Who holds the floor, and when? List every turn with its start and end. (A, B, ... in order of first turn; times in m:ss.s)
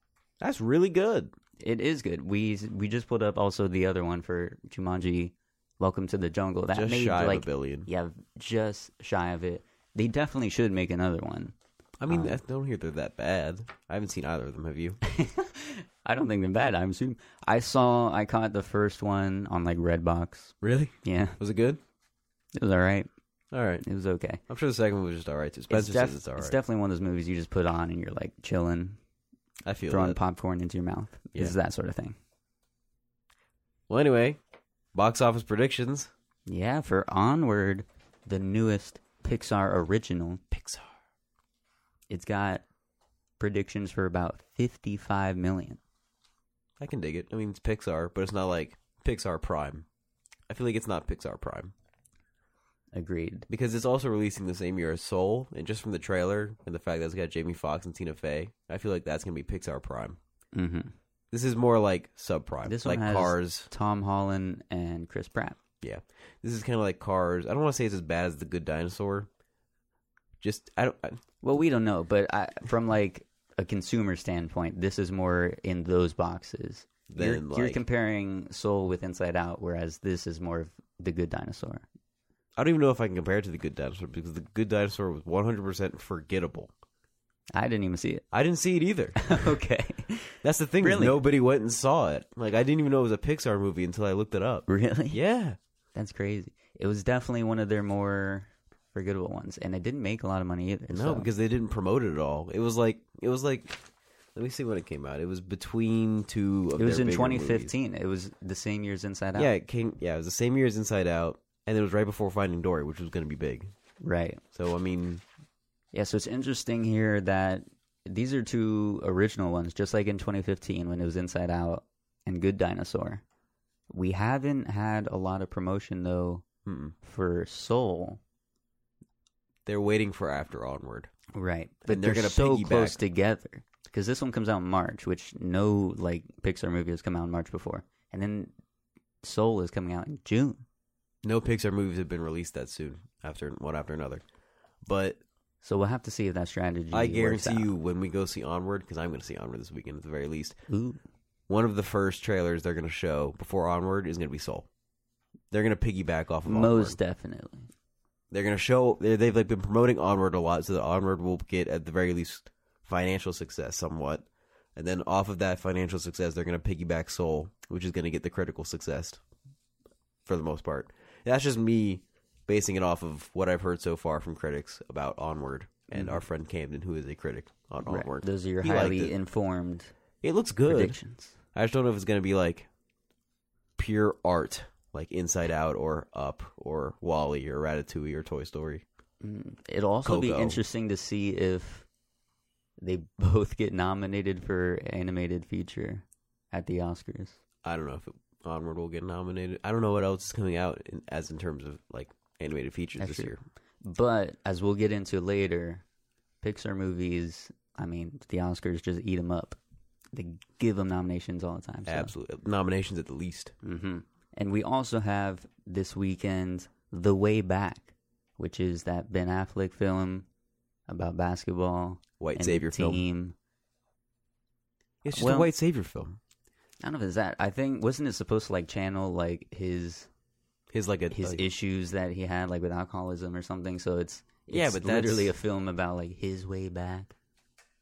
0:00.4-0:01.3 A
0:01.6-0:11.5 B
0:06.7-0:07.9 A
0:12.0-0:15.0 A
0:12.1-0:12.4 B
0:15.0-0:21.4 B
0:20.6-0:21.8 A
0:22.5-0:23.1 B
0:23.5-0:23.8 A
0:23.8-0:24.4 B
0:24.5-0:26.6 A
0:25.7-0:29.0 B
0:29.6-0:30.2 A
0:29.9-0:32.2 B
0:33.9-0:34.4 A
0:34.9-0:36.1 A
0:36.5-0:40.4 B
0:40.5-0:40.9 A
0:42.1-0:42.6 B
0:43.4-0:45.8 B
0:46.8-0:49.8 A
0:50.5-0:51.7 A
0:52.9-0:53.5 B
0:53.5-1:00.2 A
1:00.5-1:00.9 B
1:01.3-1:03.7 A
1:02.6-1:05.6 B
1:05.8-1:09.3 A
1:10.4-1:11.2 A
1:11.4-1:21.8 B
1:17.1-1:17.8 A
1:22.6-1:26.7 A
1:27.5-1:28.2 B
1:28.3-1:29.2 A
1:29.2-1:31.2 B
1:30.4-1:35.6 A
1:34.7-1:35.2 B
1:35.9-1:41.3 B
1:40.9-1:43.8 A
1:44.3-1:47.7 A
1:46.8-1:49.5 B
1:49.4-1:53.7 A
1:54.0-1:54.4 B
1:54.5-1:55.2 A
1:55.9-2:03.2 B
2:03.9-2:06.4 B
2:06.6-2:06.9 A
2:07.0-2:08.2 B
2:09.6-2:11.1 A
2:11.3-2:18.5 B
2:11.9-2:13.0 A
2:19.2-2:20.6 B
2:21.2-2:24.2 A
2:24.8-2:25.2 A
2:25.6-2:27.7 B
2:26.9-2:30.6 A
2:30.7-2:31.0 B
2:31.5-2:34.7 A
2:35.5-2:37.0 A
2:36.4-2:37.7 B
2:38.3-2:49.2 A
2:50.2-2:59.1 A
2:55.9-2:56.2 B
2:57.8-2:59.9 B
3:00.2-3:01.0 A
3:00.7-3:01.3 B
3:01.5-3:02.7 A
3:03.8-3:08.8 A
3:09.2-3:11.8 B
3:10.0-3:10.6 A
3:12.8-3:17.4 B
3:17.6-3:23.4 A
3:23.0-3:25.8 B
3:26.4-3:29.6 B
3:30.1-3:32.1 B
3:31.8-3:33.5 A
3:33.6-3:40.3 B
3:40.9-3:43.4 B
3:42.2-3:43.0 A
3:45.0-3:46.2 A
3:45.1-3:45.5 B
3:46.8-3:50.1 B
3:50.7-3:51.4 A
3:51.1-3:57.1 B
3:54.5-3:55.3 A